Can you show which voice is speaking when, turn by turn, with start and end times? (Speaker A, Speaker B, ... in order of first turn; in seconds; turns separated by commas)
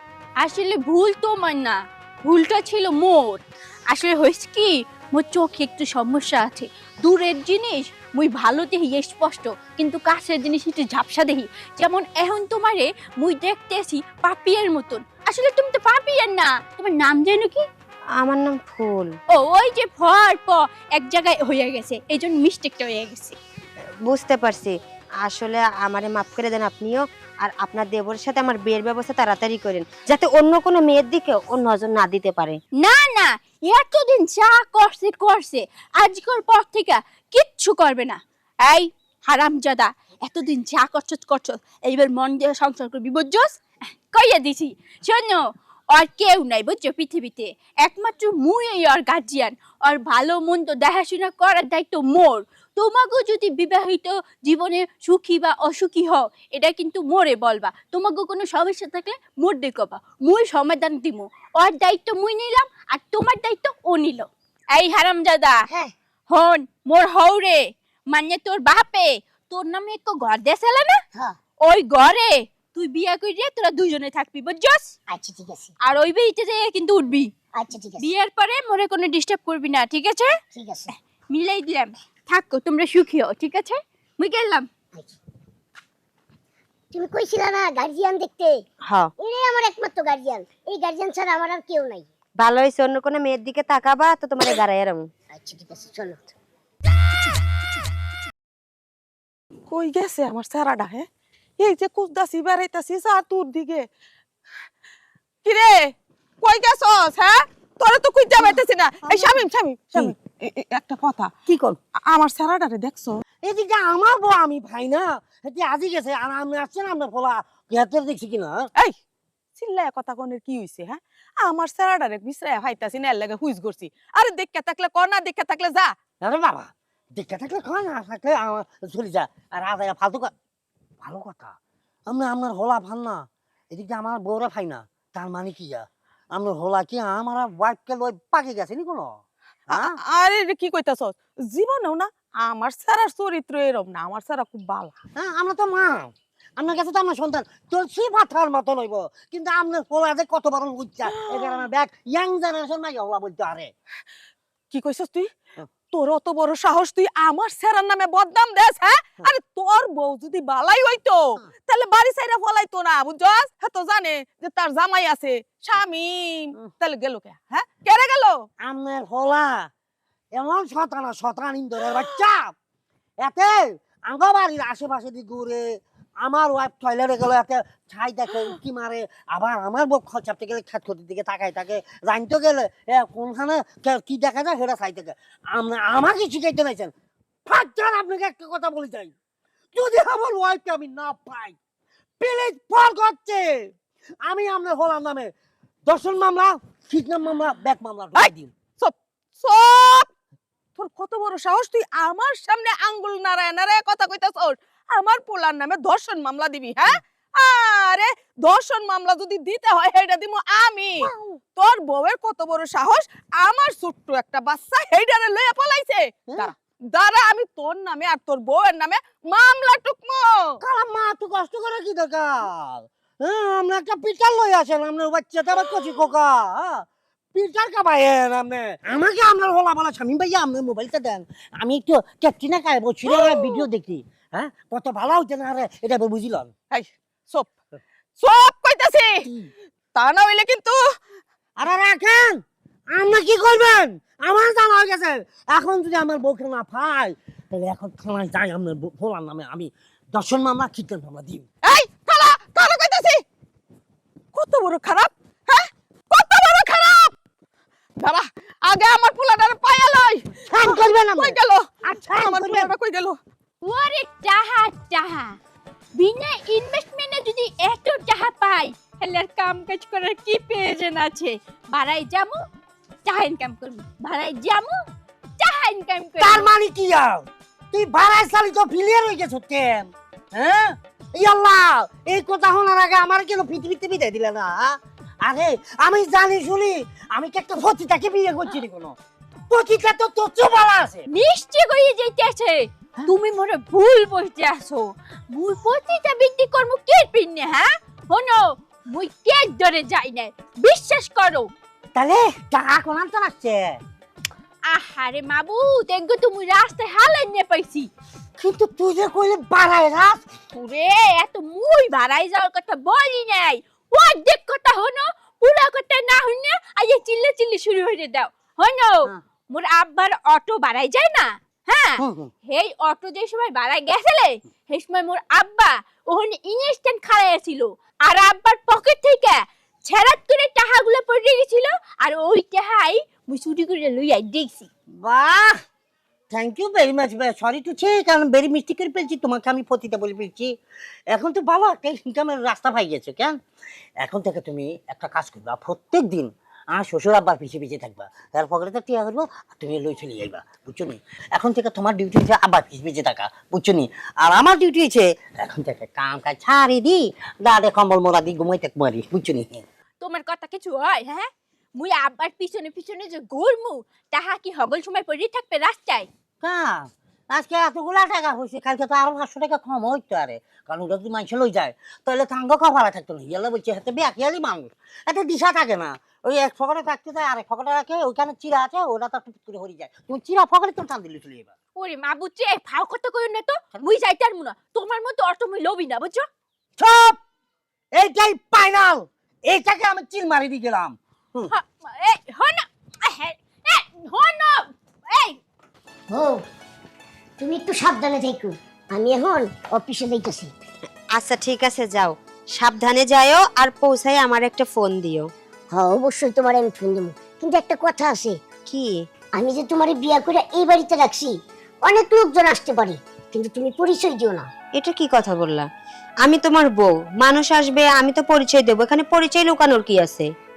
Speaker A: 0.4-17.6, Speaker B: 18.2-19.1, Speaker A: 19.3-23.4, Speaker B: 24.1-32.6, Speaker A: 32.8-43.6, Speaker A: 44.1-65.6, Speaker A: 66.3-71.0, Speaker A: 71.7-74.9, Speaker C: 75.1-75.7, Speaker A: 75.8-77.3, Speaker C: 77.6-78.1, Speaker A: 78.0-80.3, Speaker C: 80.5-80.9, Speaker A: 81.3-84.7, Speaker C: 86.9-88.6, Speaker C: 89.2-92.1, Speaker B: 92.4-95.1, Speaker C: 95.3-96.3, Speaker D: 99.7-101.1, Speaker D: 101.6-103.9, Speaker D: 105.5-111.3, Speaker E: 109.1-109.4, Speaker E: 111.5-111.8, Speaker D: 112.1-113.2, Speaker E: 113.4-118.6, Speaker D: 119.6-126.0, Speaker E: 126.2-130.3, Speaker E: 131.0-131.6, Speaker E: 132.1-139.2, Speaker E: 139.7-140.0, Speaker D: 139.7-144.9, Speaker E: 145.2-153.7, Speaker D: 151.3-151.7, Speaker D: 154.7-155.3, Speaker D: 155.9-168.4, Speaker E: 168.6-169.7, Speaker E: 170.3-172.5, Speaker D: 171.8-172.2, Speaker E: 173.2-186.9, Speaker E: 187.5-189.1, Speaker E: 189.8-191.6, Speaker E: 192.2-193.7, Speaker E: 194.2-195.3, Speaker E: 195.9-198.5, Speaker D: 198.2-200.1, Speaker D: 200.8-220.6, Speaker E: 211.0-211.4, Speaker E: 220.6-236.5, Speaker D: 233.1-233.7, Speaker D: 236.7-237.5, Speaker D: 238.2-239.3, Speaker D: 239.9-240.8, Speaker E: 241.6-242.4, Speaker E: 242.9-251.4, Speaker D: 251.6-253.2, Speaker D: 254.3-257.1, Speaker D: 258.0-263.2, Speaker E: 260.5-262.7, Speaker A: 263.6-265.4, Speaker A: 266.0-272.4, Speaker A: 273.1-274.8, Speaker A: 275.4-276.5, Speaker E: 276.2-288.9, Speaker E: 289.5-291.0, Speaker A: 291.1-301.5, Speaker E: 301.9-303.8, Speaker A: 304.7-307.9, Speaker E: 308.4-310.2, Speaker A: 310.5-334.7, Speaker E: 322.0-322.3, Speaker E: 335.0-335.6, Speaker E: 336.3-340.5, Speaker E: 341.1-343.4, Speaker E: 344.0-359.6, Speaker A: 360.0-366.1, Speaker E: 366.4-381.5, Speaker A: 381.8-386.3, Speaker E: 386.8-387.2, Speaker E: 387.9-391.5, Speaker A: 391.5-395.4, Speaker C: 396.1-396.4, Speaker C: 397.4-400.5, Speaker B: 401.2-405.3, Speaker C: 405.7-408.4, Speaker B: 408.7-409.0, Speaker C: 409.4-411.3, Speaker C: 411.9-414.5, Speaker B: 414.8-415.7, Speaker B: 416.2-420.3